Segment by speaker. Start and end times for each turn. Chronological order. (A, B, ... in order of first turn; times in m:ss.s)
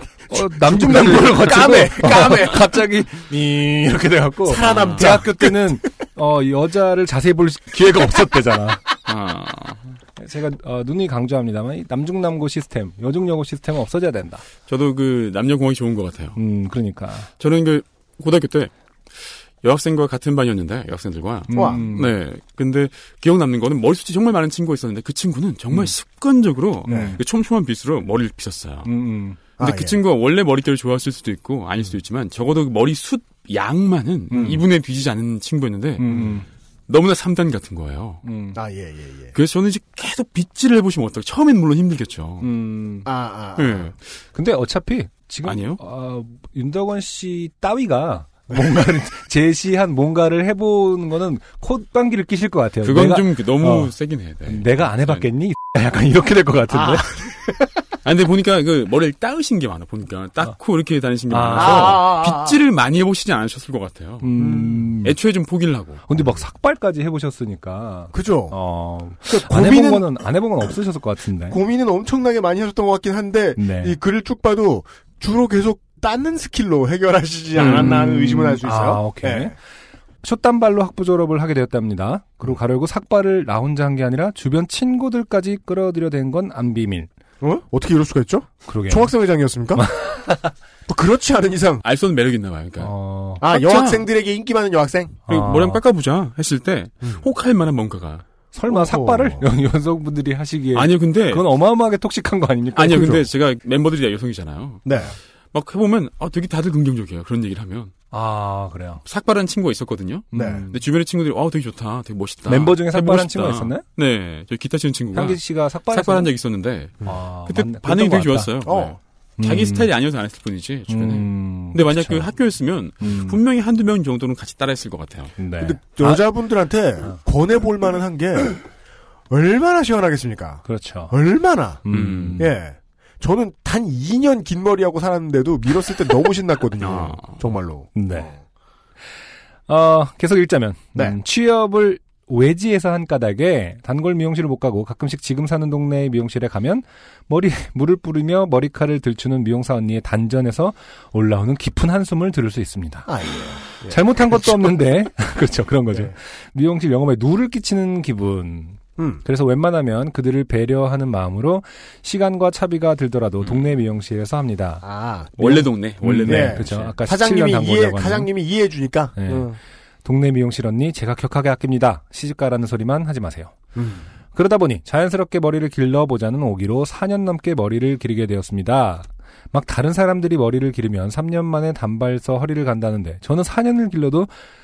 0:00.3-0:08.8 A
0:00.3-0:02.8 B
0:04.5-0:05.8 B
0:04.6-0:05.2 C
0:09.1-0:10.0 C
0:10.2-0:14.4 A
0:14.7-0:16.4 C
0:16.4-0:17.3 A
0:17.4-0:28.9 C
0:21.5-0:22.2 A
0:21.5-0:21.9 B
0:26.9-0:27.2 A
0:26.9-0:27.2 B
0:28.8-0:29.4 A
0:29.6-0:30.0 B
0:29.6-0:38.2 C
0:34.3-0:34.6 A
0:36.0-0:36.5 A
0:38.2-0:38.6 A
0:38.5-0:39.3 B
0:39.3-0:42.5 C
0:42.4-0:43.1 A
0:43.0-0:43.9 B
0:43.6-0:44.0 C
0:44.3-0:57.2 A
0:45.4-0:45.8 C
0:52.8-0:55.2 C
0:56.7-0:57.3 B
0:58.0-1:04.3 C
1:01.3-1:02.0 A
1:01.6-1:02.6 B
1:04.2-1:05.2 A
1:04.4-1:04.8 B
1:05.0-1:06.2 C
1:06.1-1:11.6 A
1:08.1-1:08.6 B
1:09.3-1:10.2 B
1:11.5-1:19.6 B
1:13.6-1:14.0 A
1:17.6-1:19.6 A
1:17.6-1:18.0 C
1:20.2-1:27.1 A
1:27.4-1:29.9 B
1:28.7-1:29.1 A
1:29.8-1:30.5 A
1:30.9-1:31.8 B
1:31.8-1:34.1 C
1:32.8-1:33.4 A
1:33.4-1:35.2 B
1:35.3-1:35.8 A
1:35.3-1:38.2 C
1:38.5-1:43.3 A
1:38.7-1:39.5 B
1:40.7-1:41.5 C
1:42.7-1:45.0 C
1:44.8-1:45.1 B
1:45.5-1:47.9 C
1:48.1-1:49.0 A
1:49.0-2:05.4 C
1:50.3-1:50.8 A
1:50.3-1:50.7 B
1:52.5-1:53.8 A
1:55.1-1:56.3 A
1:57.0-1:58.5 A
1:58.6-1:59.0 B
1:59.4-1:59.9 A
2:00.9-2:02.3 A
2:03.0-2:03.4 A
2:05.4-2:06.2 A
2:05.6-2:08.6 B
2:09.3-2:11.9 B
2:10.7-2:11.2 A
2:11.8-2:12.5 A
2:11.9-2:12.5 C
2:12.4-2:18.4 B
2:16.8-2:17.4 C
2:18.0-2:18.3 A
2:19.7-2:33.1 A
2:33.1-2:34.8 B
2:33.9-2:44.8 A
2:39.0-2:39.2 B
2:43.4-2:43.7 C
2:44.8-2:45.6 B
2:45.4-2:47.0 C
2:45.4-2:48.3 A
2:46.3-2:49.6 B
2:49.2-2:49.5 A
2:50.0-2:53.6 A
2:53.8-2:54.1 B
2:54.3-3:04.3 A